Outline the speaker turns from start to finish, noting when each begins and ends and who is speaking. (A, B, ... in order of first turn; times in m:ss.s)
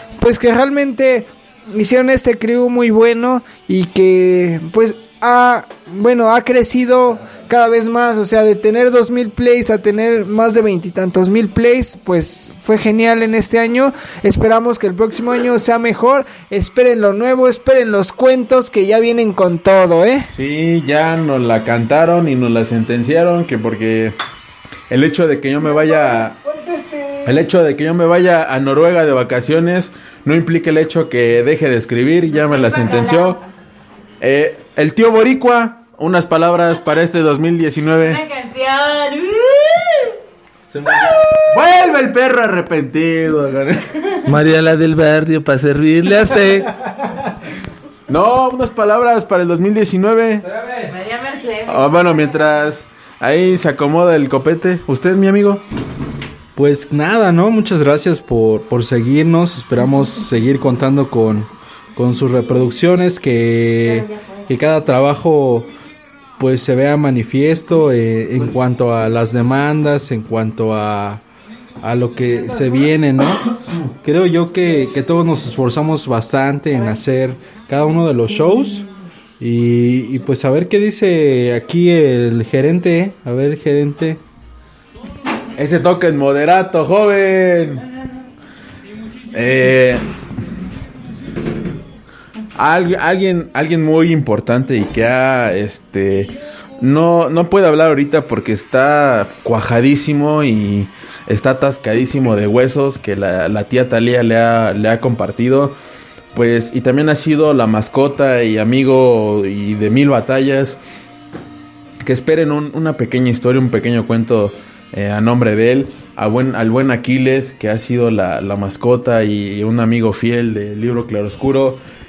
0:00.2-0:20.3 A
0:20.3-0:24.2 B
0:24.9-0:26.4 B
0:25.6-0:27.4 A
0:27.3-0:33.4 B
0:32.4-0:33.4 C
0:34.2-0:38.2 B
0:38.0-0:40.2 C
0:40.7-0:43.8 B
0:44.3-0:46.7 D
0:48.1-0:50.4 B
0:50.9-0:52.2 C
0:51.7-0:55.6 B
0:56.6-1:05.7 E
1:06.4-1:11.2 E
1:11.8-1:13.5 E
1:14.0-1:18.9 E
1:19.4-1:24.2 E
1:25.6-1:27.8 B
1:29.3-1:30.1 B
1:32.6-1:45.8 B
1:46.3-1:50.8 B
1:52.0-2:01.8 B